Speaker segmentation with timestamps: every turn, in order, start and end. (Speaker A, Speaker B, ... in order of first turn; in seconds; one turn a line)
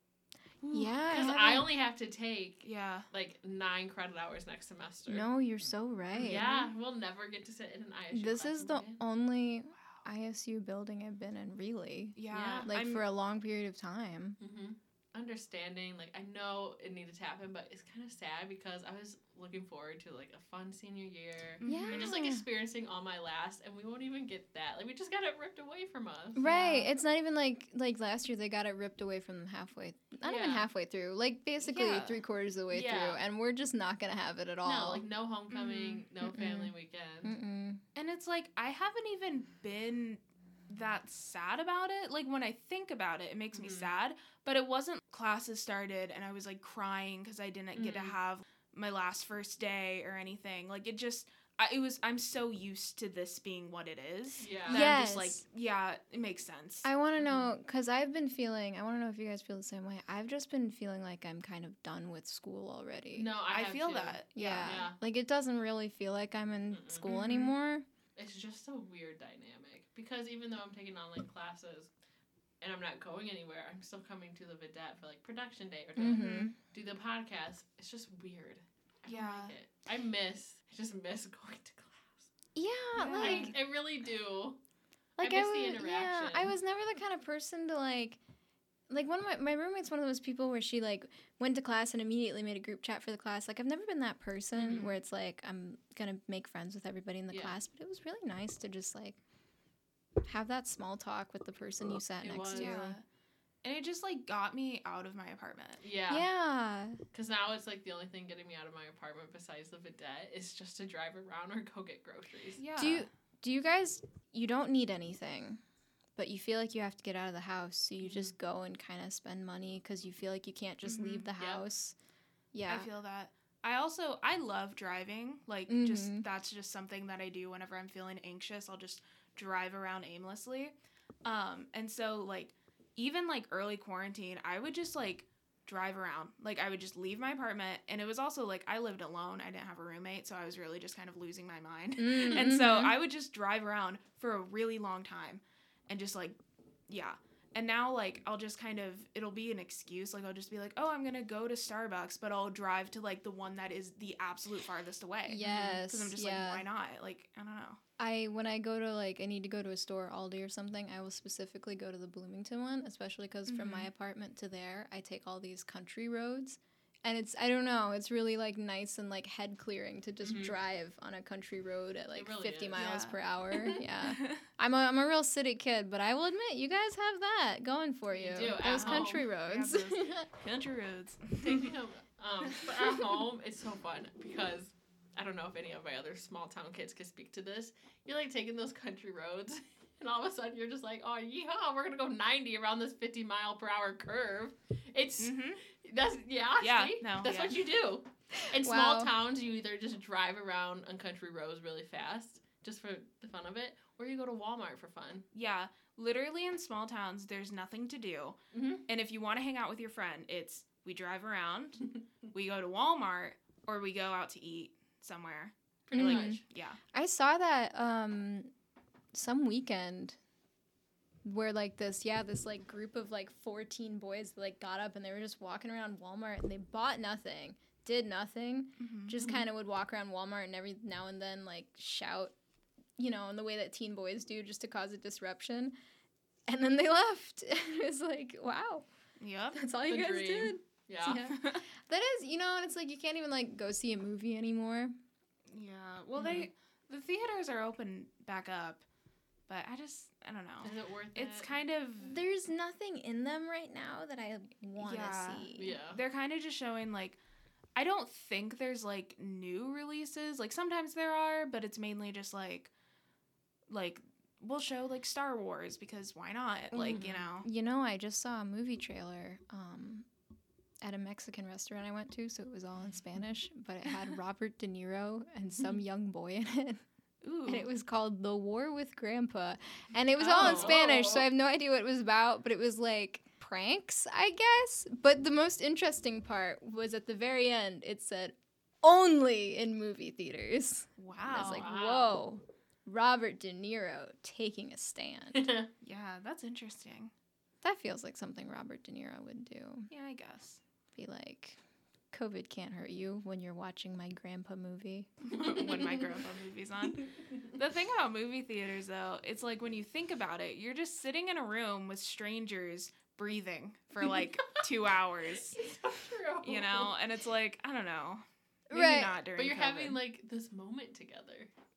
Speaker A: 0.6-1.0
Speaker B: 0.7-1.7
Speaker C: 1.1-5.3
Speaker A: 2.6-3.1
Speaker B: 5.1-6.5
Speaker A: 6.1-6.7
Speaker C: 6.2-9.0
Speaker B: 8.1-14.4
Speaker A: 12.2-13.0
Speaker C: 12.3-12.7
Speaker C: 14.4-26.9
Speaker A: 21.6-22.1
Speaker B: 21.6-22.4
Speaker B: 26.3-35.0
Speaker C: 30.2-30.7
Speaker A: 31.6-32.2
Speaker C: 32.7-33.2
Speaker C: 34.6-37.4
Speaker A: 35.5-36.0
Speaker B: 36.2-36.7
Speaker B: 37.2-37.8
Speaker A: 38.0-56.9
Speaker C: 43.5-43.9
Speaker C: 47.7-48.2
Speaker C: 54.4-54.8
Speaker B: 54.7-55.4
Speaker B: 56.8-63.3
Speaker C: 57.2-57.5
Speaker C: 63.1-65.0
Speaker A: 63.5-64.8
Speaker B: 64.3-67.8
Speaker C: 66.7-67.1
Speaker A: 67.0-67.5
Speaker C: 68.2-71.9
Speaker C: 72.6-82.3
Speaker B: 76.0-76.6
Speaker A: 76.1-76.5
Speaker A: 79.0-79.5
Speaker B: 82.5-83.5
Speaker A: 83.0-83.5
Speaker C: 83.1-84.6
Speaker B: 85.2-88.2
Speaker C: 85.2-86.5
Speaker B: 88.9-99.2
Speaker C: 94.6-94.9
Speaker C: 97.3-97.6
Speaker B: 100.2-103.0
Speaker C: 102.1-102.8
Speaker A: 102.5-103.0
Speaker A: 103.6-105.8
Speaker C: 105.8-106.3
Speaker B: 106.1-107.0
Speaker C: 107.1-112.6
Speaker A: 112.6-113.1
Speaker B: 112.8-115.6
Speaker B: 116.2-122.0
Speaker A: 120.8-121.3
Speaker C: 121.4-121.6
Speaker B: 122.5-122.9
Speaker A: 122.7-146.4
Speaker B: 125.7-126.3
Speaker B: 142.0-142.9
Speaker A: 146.9-157.8
Speaker B: 155.3-156.6
Speaker B: 158.0-180.3
Speaker A: 163.5-163.9
Speaker C: 170.2-170.6
Speaker C: 172.1-172.8
Speaker A: 172.7-173.2
Speaker A: 174.0-174.4
Speaker C: 178.1-179.3
Speaker A: 178.6-181.7
Speaker C: 181.4-205.2
Speaker A: 182.5-183.1
Speaker A: 195.2-195.6
Speaker A: 196.6-197.6
Speaker B: 198.6-199.1
Speaker A: 205.3-208.4
Speaker C: 208.5-208.8
Speaker A: 208.9-216.8
Speaker C: 215.9-216.4
Speaker B: 215.9-216.4
Speaker B: 216.9-218.5
Speaker B: 219.1-220.2
Speaker B: 221.2-232.3
Speaker A: 228.8-229.4
Speaker B: 233.0-235.7
Speaker B: 236.5-238.8
Speaker A: 239.2-239.6
Speaker B: 239.5-244.9
Speaker C: 239.9-241.2
Speaker A: 241.3-241.6
Speaker A: 245.5-248.8
Speaker B: 246.2-246.5
Speaker A: 249.5-252.2
Speaker C: 250.6-251.5
Speaker B: 252.0-255.8
Speaker A: 254.8-257.2
Speaker C: 255.6-256.0
Speaker A: 257.8-262.7
Speaker A: 263.7-267.5
Speaker B: 266.7-270.1
Speaker C: 266.9-267.2
Speaker B: 270.8-276.8
Speaker A: 277.2-277.7
Speaker B: 277.5-295.4
Speaker C: 280.2-281.3
Speaker A: 280.2-280.8
Speaker A: 291.0-291.7
Speaker C: 291.5-292.2
Speaker C: 295.3-295.7
Speaker A: 295.8-297.1
Speaker B: 297.6-299.9
Speaker A: 299.9-300.6
Speaker B: 300.9-301.6
Speaker B: 302.1-305.4
Speaker A: 305.3-315.6
Speaker C: 305.4-306.0
Speaker C: 314.1-314.7
Speaker C: 315.4-316.9
Speaker A: 316.4-320.0
Speaker B: 318.7-319.2
Speaker C: 319.3-321.5